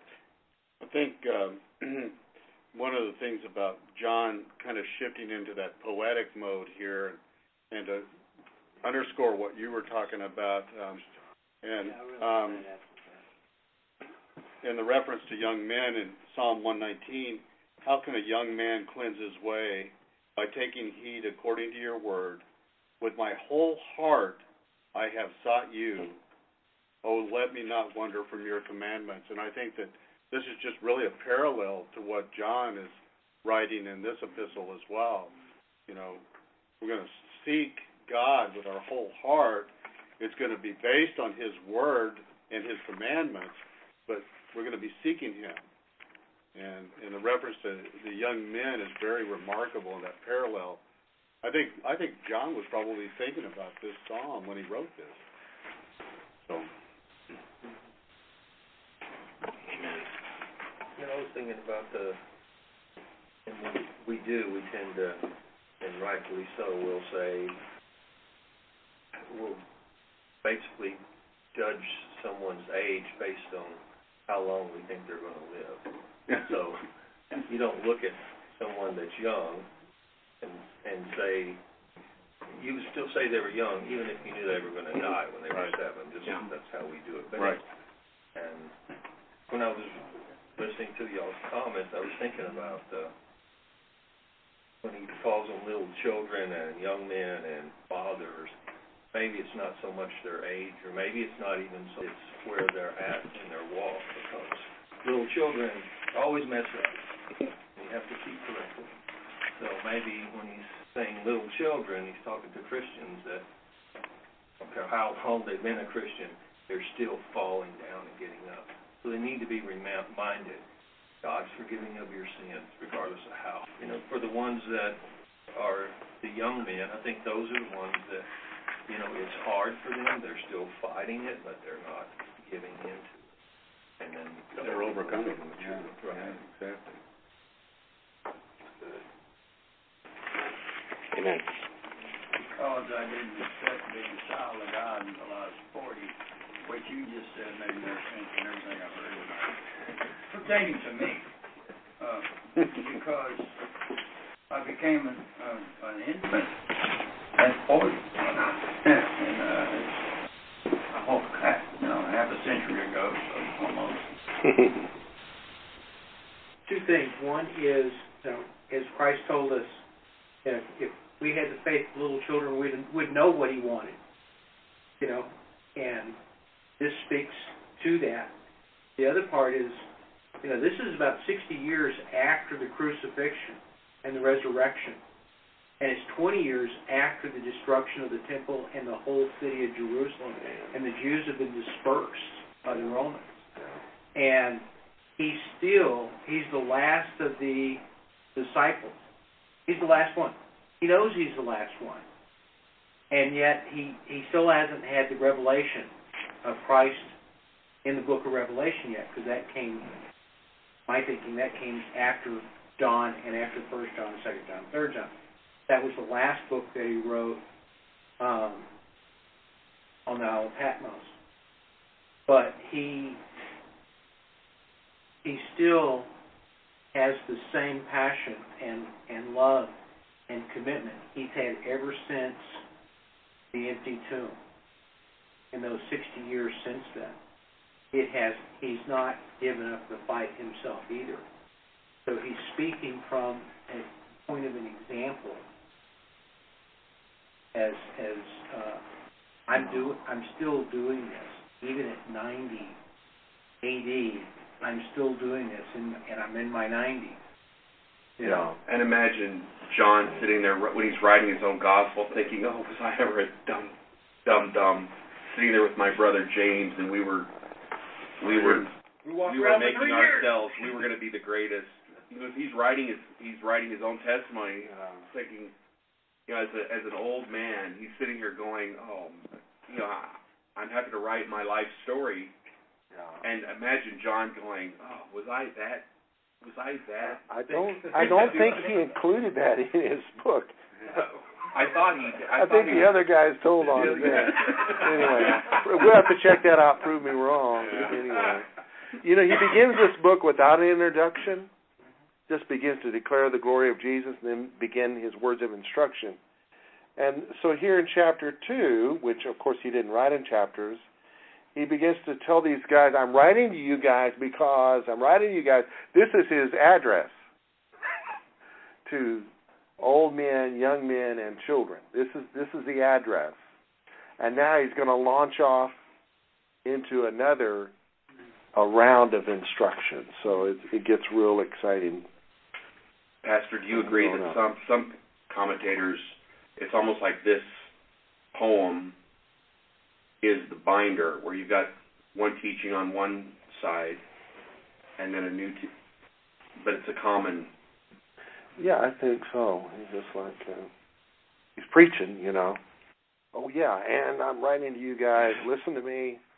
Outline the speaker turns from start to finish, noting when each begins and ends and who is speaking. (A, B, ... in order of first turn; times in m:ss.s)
0:00.8-0:02.2 A
0:02.7-0:08.1 A
0:08.8-0:11.1 A
0:11.6-0:12.7 A
0:11.8-0:13.2 B
0:14.6-0:22.4 A
0:23.0-0:24.4 A
0:24.9-0:26.2 A
0:27.0-0:35.4 A
0:35.9-0:36.2 A
0:36.8-0:45.6 A
0:46.5-0:50.8 A
0:51.4-0:55.2 A
0:59.7-1:00.1 C
1:01.0-1:02.2 D
1:03.5-1:05.3 D
1:05.8-1:07.6 D
1:09.3-1:09.6 D
1:10.4-1:11.0 D
1:11.5-1:16.8 D
1:17.3-1:19.7 D
1:20.4-1:21.6 D
1:22.5-1:27.6 D
1:28.4-1:28.8 D
1:29.5-1:33.1 D
1:34.8-1:38.5 D
1:39.1-1:47.0 D
1:47.8-1:49.0 D
1:49.5-1:53.4 D
1:54.6-2:00.6 D
2:01.2-2:05.0 D
2:05.6-2:08.3 D
2:08.9-2:13.3 D
2:14.0-2:16.4 D
2:14.6-2:17.0 A
2:21.1-2:21.6 C
2:22.5-2:29.6 E
2:30.3-2:31.3 E
2:32.0-2:33.6 E
2:34.5-2:36.6 E
2:37.4-2:40.1 E
2:40.9-2:44.1 E
2:46.7-2:49.8 B
2:50.4-2:54.0 B
2:55.0-2:56.2 B
2:56.8-2:58.3 B
2:59.0-2:59.8 B
3:00.4-3:05.0 B
3:05.8-3:13.4 B
3:14.1-3:14.6 B
3:15.2-3:17.8 B
3:18.4-3:19.0 B
3:19.7-3:22.0 B
3:23.1-3:25.9 B
3:26.4-3:27.1 B
3:27.8-3:29.9 B
3:30.9-3:35.1 B
3:35.7-3:37.4 B
3:38.2-3:38.7 B
3:40.1-3:41.2 B
3:42.3-3:43.2 B
3:45.2-3:46.1 B
3:46.9-3:49.8 B
3:50.3-3:52.6 B
3:53.5-3:54.4 B
3:55.5-3:57.2 B
3:57.9-4:01.2 B
4:02.1-4:05.4 B
4:07.5-4:08.8 B
4:09.5-4:12.8 B
4:13.6-4:17.2 B
4:18.2-4:18.5 B
4:18.3-4:23.8 C
4:24.3-4:27.3 C
4:28.2-4:28.7 C
4:29.1-4:30.1 B
4:29.2-4:35.5 C
4:36.3-4:42.3 C
4:42.9-4:43.2 F
4:43.2-4:45.9 C
4:46.4-4:48.8 C
4:47.3-4:50.6 F
4:50.9-4:53.0 C
4:52.4-5:01.5 F
4:53.8-4:55.3 C
5:02.3-5:06.2 F
5:07.0-5:10.8 F
5:11.6-5:17.1 F
5:18.8-5:23.4 F
5:24.2-5:25.8 F
5:26.6-5:27.7 F
5:28.5-5:32.0 F
5:33.2-5:37.7 C
5:33.7-5:34.4 F
5:38.3-5:39.0 C
5:40.2-5:44.0 C
5:45.0-5:45.7 C
5:46.6-5:47.5 C
5:48.6-5:50.7 F
5:51.6-5:52.6 F
5:53.3-5:56.2 F